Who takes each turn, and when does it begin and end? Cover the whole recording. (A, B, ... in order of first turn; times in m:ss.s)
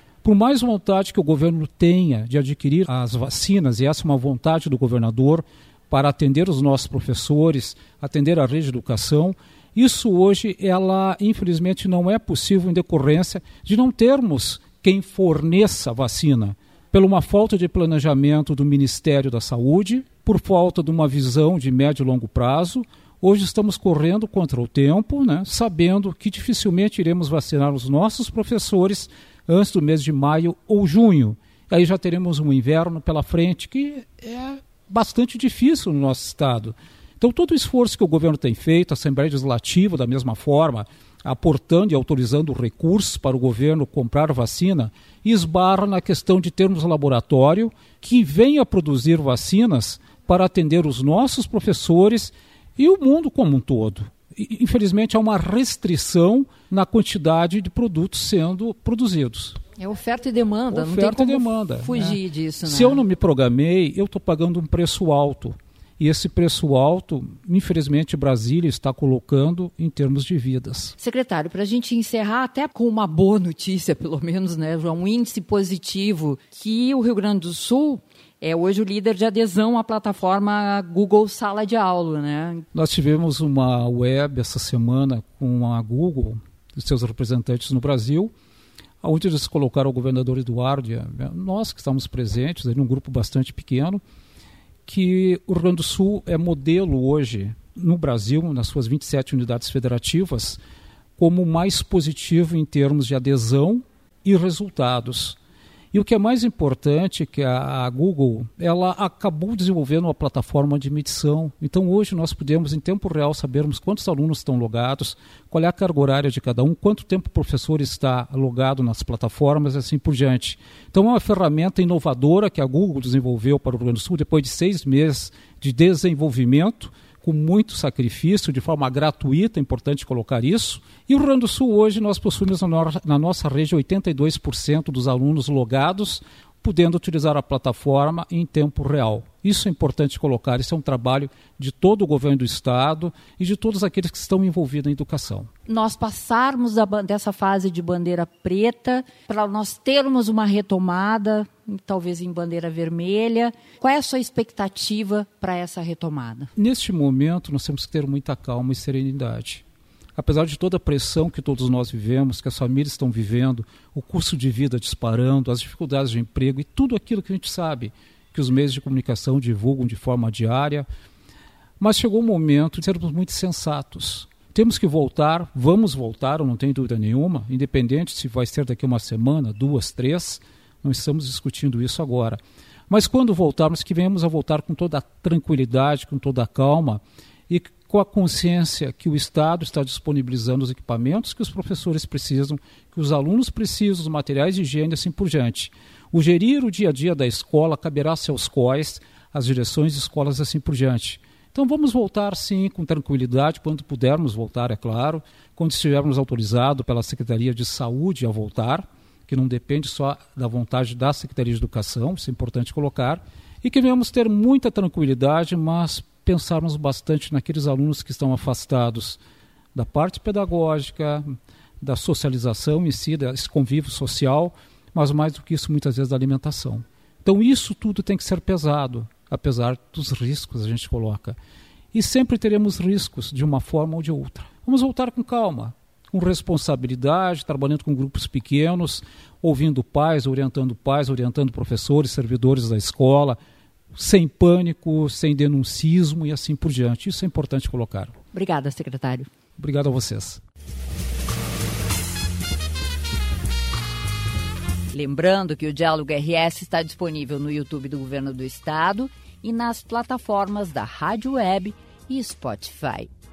0:00.2-0:59.6 A
0:59.8-1:03.0 B
1:00.7-1:11.0 A
1:11.0-1:22.6 B
1:22.7-1:28.3 A
1:29.0-1:34.0 A
1:34.9-1:40.6 A
1:41.2-1:45.4 A
1:45.9-2:25.5 A
2:25.7-2:36.5 B
2:36.6-2:39.6 A
2:40.2-2:50.9 A
2:51.8-3:39.2 A
3:39.7-3:41.3 A
3:41.8-3:51.4 A
3:51.9-4:03.4 A
4:03.9-4:08.1 A
4:08.3-4:09.3 B
4:09.6-4:10.4 A
4:14.9-4:23.1 B